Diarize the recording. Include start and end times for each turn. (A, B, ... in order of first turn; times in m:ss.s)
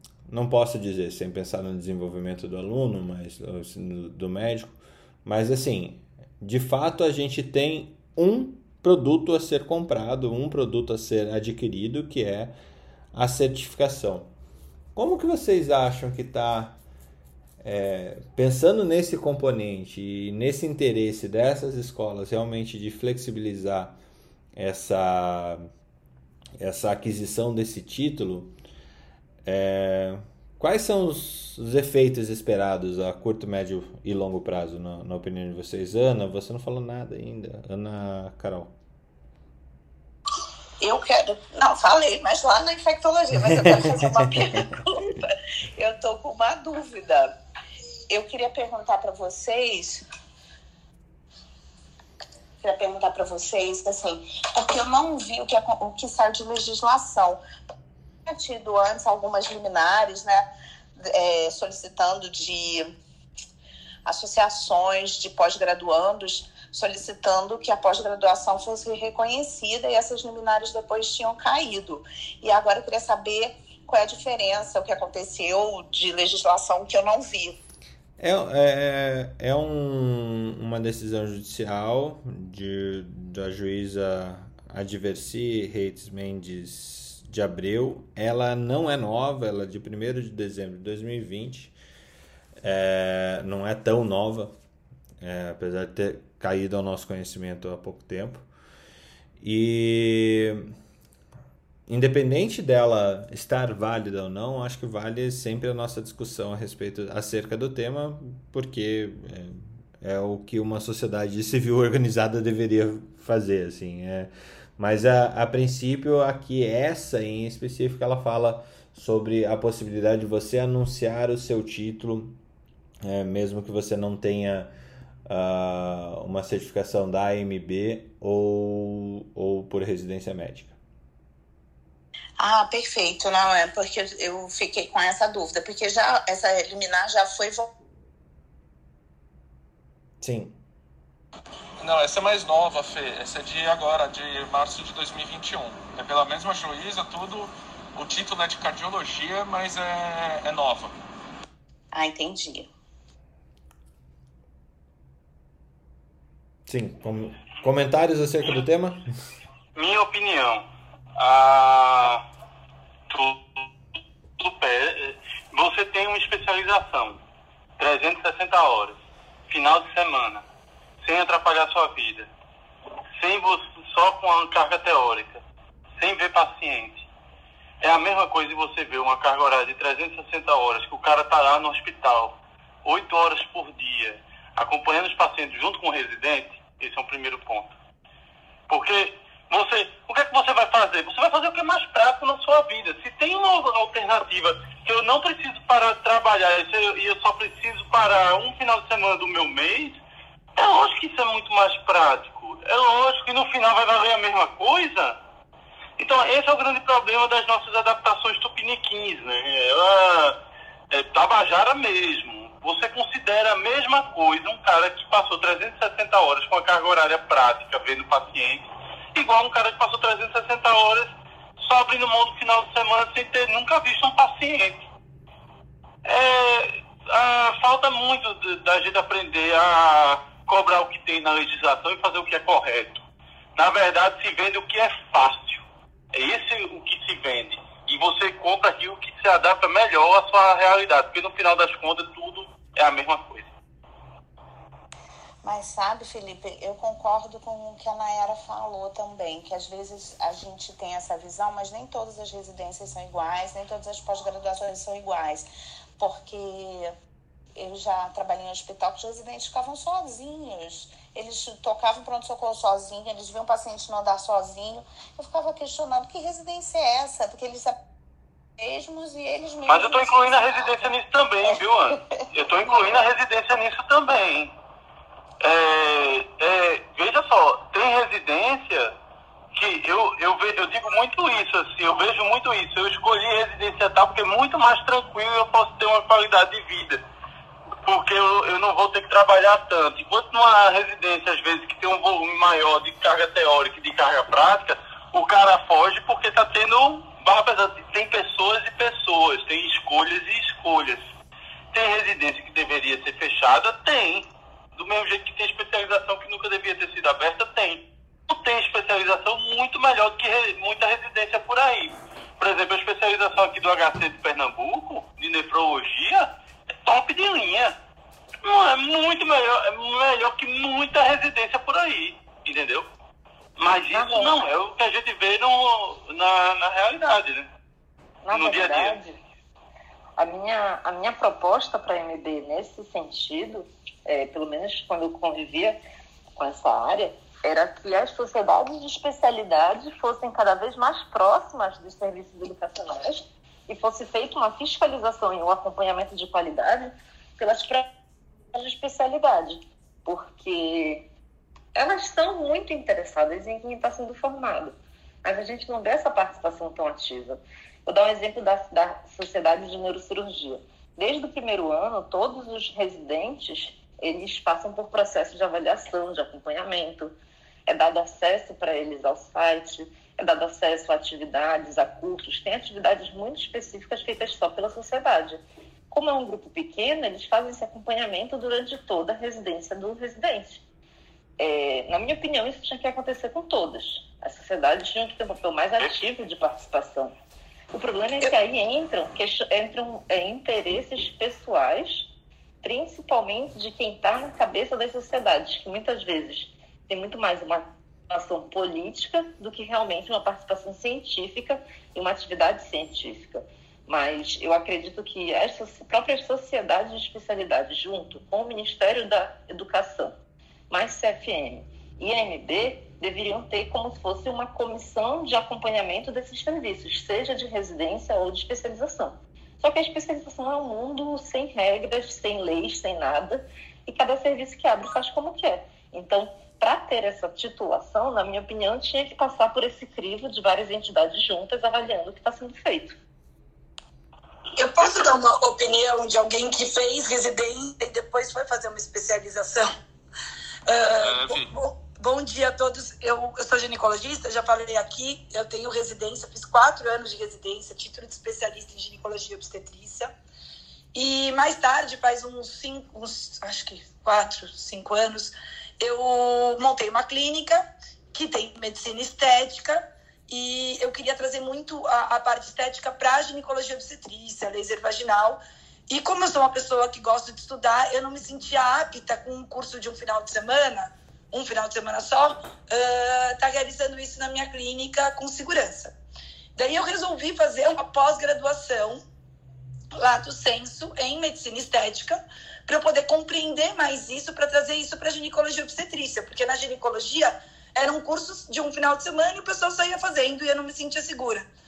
0:00.3-0:12.6 A
0:13.1-0:14.3 A
0:15.0-0:16.8 A
0:17.6-0:24.0 A
0:24.6-0:25.7 A
0:26.6-0:28.5 A
0:29.4-0:38.8 A
0:40.8-0:45.2 B
0:43.5-0:44.7 A
0:45.8-0:47.3 B
0:48.1-0:50.0 B
0:52.6-0:57.4 B
0:58.3-1:00.5 B
1:01.0-1:02.9 B
1:04.0-1:17.6 B
1:18.2-1:31.7 A
1:32.6-1:34.6 A
1:35.2-1:38.4 A
1:39.4-1:40.7 A
1:41.9-2:02.4 A
2:03.0-2:04.7 A
2:05.3-2:10.7 A
2:12.4-2:17.7 B
2:20.2-2:20.6 A
2:21.8-2:30.9 C
2:31.9-2:32.7 B
2:36.7-2:39.1 A
2:39.8-2:40.6 D
2:41.2-2:42.2 D
2:43.1-2:43.4 D
2:44.4-2:47.2 D
2:47.8-2:48.9 D
2:49.5-2:50.4 D
2:51.0-2:52.3 D
2:53.2-2:55.4 D
2:56.0-2:57.0 D
2:57.8-3:02.3 D
3:02.8-3:07.7 D
3:08.7-3:20.0 D
3:20.6-3:25.2 D
3:26.0-3:30.3 D
3:30.9-3:38.6 D
3:39.2-3:41.1 D
3:41.6-3:44.7 D
3:46.1-3:53.0 D
3:53.6-3:55.6 D
3:56.1-4:03.4 D
4:05.4-4:16.9 B
4:17.6-4:27.7 B
4:28.6-4:30.9 B
4:29.7-4:34.5 D
4:35.4-4:38.9 D
4:39.6-4:47.0 D
4:47.9-5:01.0 D
5:01.7-5:04.2 D
5:04.8-5:07.8 D
5:08.3-5:16.2 D
5:16.9-5:17.7 D
5:18.5-5:22.8 D
5:23.6-5:27.4 D
5:23.9-5:24.4 E
5:28.2-5:29.2 E
5:28.3-5:29.0 D
5:30.2-5:35.8 E
5:36.4-5:47.9 E
5:48.5-5:51.0 E
5:51.8-6:07.1 E
6:07.7-6:20.6 E
6:21.4-6:27.1 E
6:27.7-6:32.1 E
6:32.6-6:50.1 E
6:50.7-7:13.0 E
7:14.6-7:19.7 F
7:20.7-7:30.1 F
7:21.0-7:21.5 C
7:30.9-7:55.9 F
7:56.6-7:59.0 F
8:00.0-8:11.5 F